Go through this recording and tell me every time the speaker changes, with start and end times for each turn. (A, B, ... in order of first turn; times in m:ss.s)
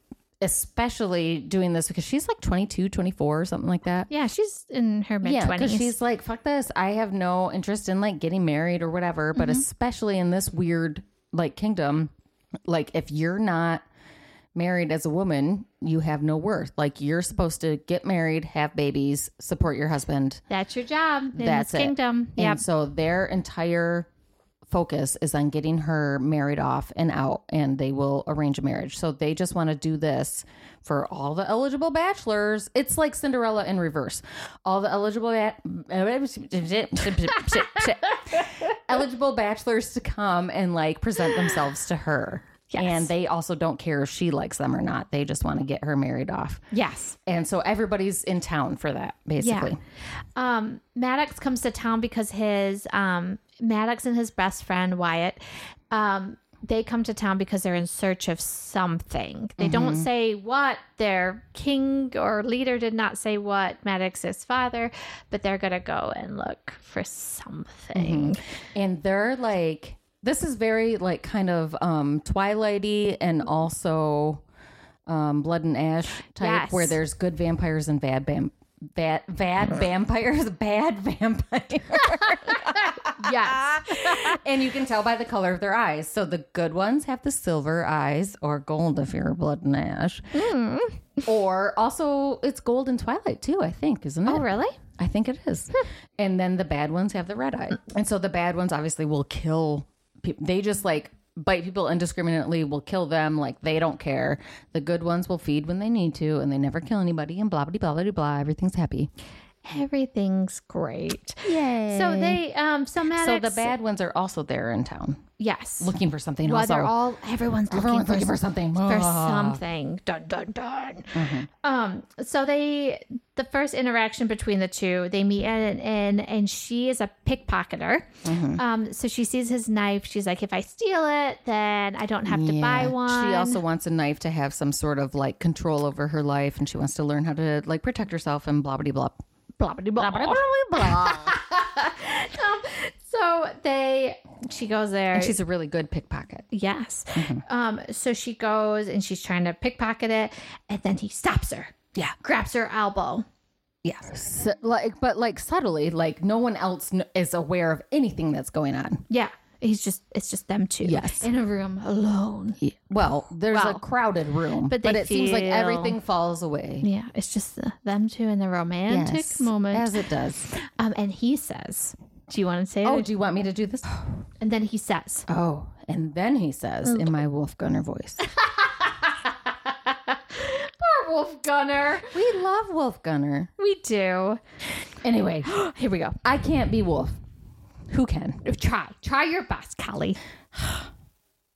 0:00.4-0:04.1 A
0:04.1-0:05.9 B
0:05.2-0:12.1 A
0:09.3-0:09.6 B
0:12.7-0:13.8 A
0:14.5-0:20.4 A
0:20.5-0:22.6 B
0:21.3-0:24.1 A
0:24.7-0:46.6 A
0:42.7-0:43.1 B
0:46.7-0:47.2 B
0:47.2-0:49.8 A
0:49.4-0:49.7 B
0:50.4-0:55.4 B
0:55.9-1:08.4 B
0:59.6-1:00.1 A
1:07.9-1:14.4 A
1:15.1-1:30.4 A
1:16.4-1:17.0 B
1:22.1-1:24.4 B
1:30.3-1:31.2 B
1:31.2-1:49.1 A
1:34.2-1:34.8 B
1:49.6-1:53.7 B
1:51.4-1:52.4 A
1:53.1-1:55.2 A
1:55.4-2:13.6 B
1:55.8-1:56.9 A
1:57.7-1:59.6 A
2:01.1-2:01.5 A
2:08.2-2:08.6 A
2:12.2-2:19.2 A
2:19.6-2:25.4 B
2:20.0-2:21.4 A
2:25.1-2:26.4 A
2:26.5-2:33.2 B
2:27.1-2:27.4 A
2:33.8-2:39.0 A
2:39.1-2:42.6 B
2:40.8-2:41.3 A
2:42.6-2:46.9 A
2:43.5-2:43.8 B
2:44.6-2:46.0 B
2:46.8-2:50.0 B
2:48.9-2:50.5 A
2:50.5-2:53.1 B
2:52.8-2:54.2 A
2:54.4-2:55.3 B
2:55.3-2:58.2 A
2:56.9-2:57.2 B
2:58.2-3:02.2 B
3:02.1-3:03.5 A
3:03.6-3:04.4 B
3:05.0-3:05.5 A
3:05.4-3:06.2 B
3:06.2-3:07.1 A
3:07.9-3:08.4 A
3:08.4-3:10.2 B
3:10.6-3:10.9 A